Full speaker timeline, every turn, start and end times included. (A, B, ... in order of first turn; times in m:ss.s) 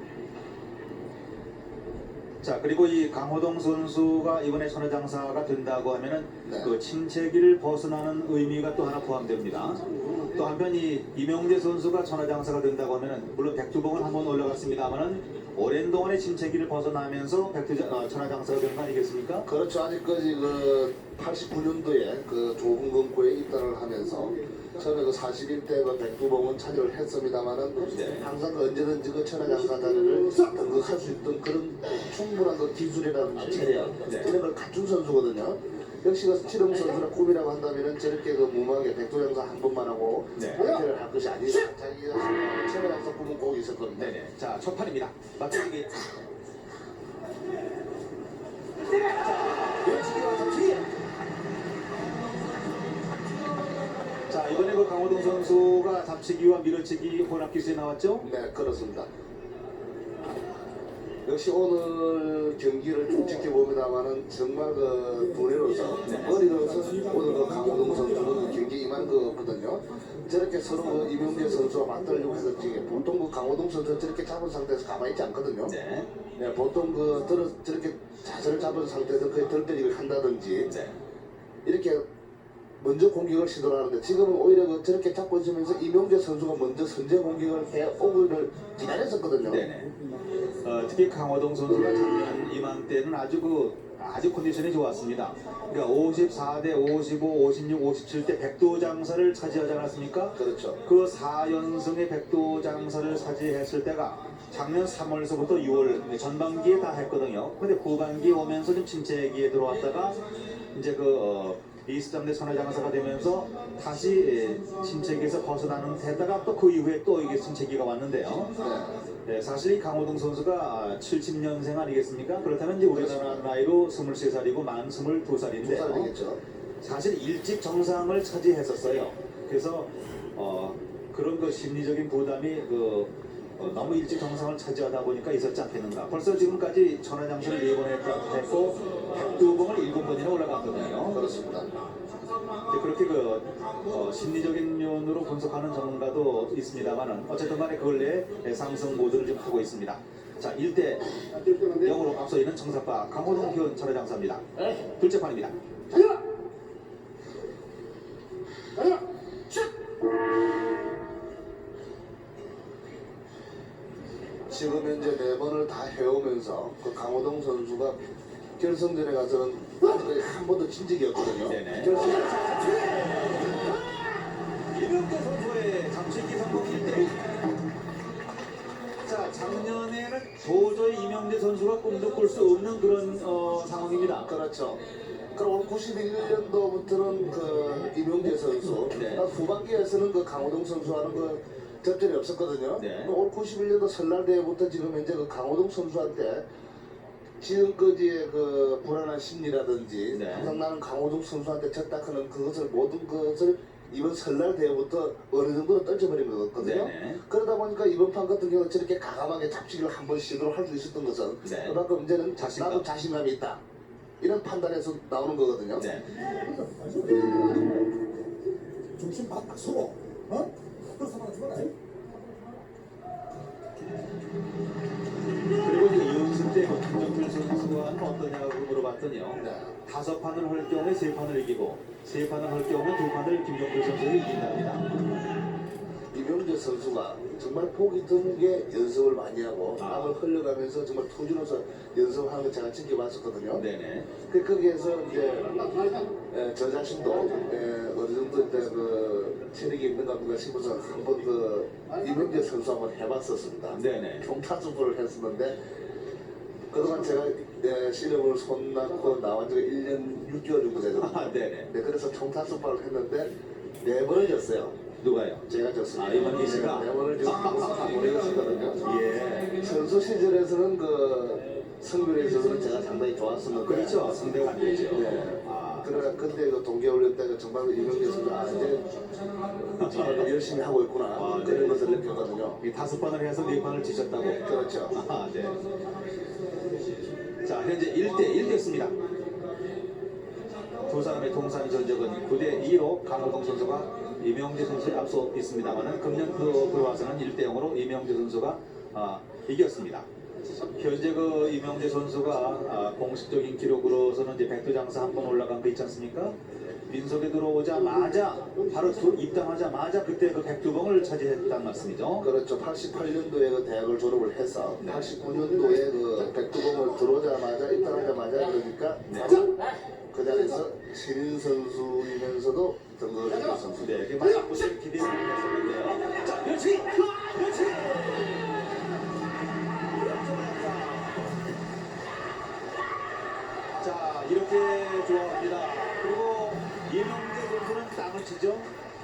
0:02.4-0:19.5 A
0:06.4-0:06.7 B
0:19.4-0:44.2 B
0:27.9-0:28.2 A
0:34.0-0:34.3 A
0:40.3-0:40.7 A
0:44.0-0:46.1 A
0:49.0-0:50.9 A
0:54.2-0:58.3 A
0:58.2-0:59.1 B
1:01.2-1:15.8 B
1:06.0-1:06.4 A
1:15.6-1:16.1 A
1:16.3-1:20.7 B
1:20.7-1:21.0 A
1:21.6-1:22.0 B
1:22.8-1:29.7 B
1:29.5-1:30.0 A
1:30.6-1:58.6 A
1:40.3-1:40.8 B
1:58.6-1:59.0 B
1:59.2-2:06.1 A
2:02.9-2:03.4 B
2:05.6-2:06.4 B
2:06.8-2:21.2 A
2:21.1-2:21.7 B
2:22.7-2:35.6 A
2:44.5-2:48.0 B
2:48.6-2:52.3 B
2:51.4-2:54.0 A
2:54.7-2:57.2 A
2:59.0-3:04.3 A
3:04.2-3:16.4 B
3:08.9-3:09.2 A
3:12.8-3:13.1 A
3:17.4-3:33.6 B
3:20.1-3:20.6 A
3:26.6-3:27.2 A
3:31.4-3:31.8 A
3:32.4-3:32.8 A
3:34.2-3:35.9 B
3:35.8-3:36.0 A
3:36.4-3:37.7 C
3:39.0-3:41.7 C
3:45.6-3:54.8 A
3:49.4-3:49.7 B
3:56.1-4:03.6 B
3:59.8-4:00.2 A
4:03.5-4:04.1 A
4:04.2-4:15.6 B
4:13.7-4:14.2 A
4:16.7-4:24.8 B
4:21.0-4:21.7 A
4:25.0-4:25.4 A
4:25.4-4:28.8 B
4:25.9-4:27.8 A
4:28.8-4:29.6 A
4:29.5-4:34.2 B
4:33.6-4:35.9 A
4:34.9-4:38.9 B
4:39.7-4:40.4 A
4:39.8-4:42.6 B
4:41.1-4:41.9 A
4:42.6-4:45.6 A
4:44.4-4:45.0 B
4:47.4-4:49.0 A
4:50.9-5:00.1 A
5:00.8-5:12.3 A
5:12.2-5:19.5 B
5:14.8-5:15.2 A
5:19.1-5:19.4 A
5:20.1-5:24.1 B
5:23.8-5:28.6 A
5:30.0-5:31.3 A
5:33.8-5:38.7 A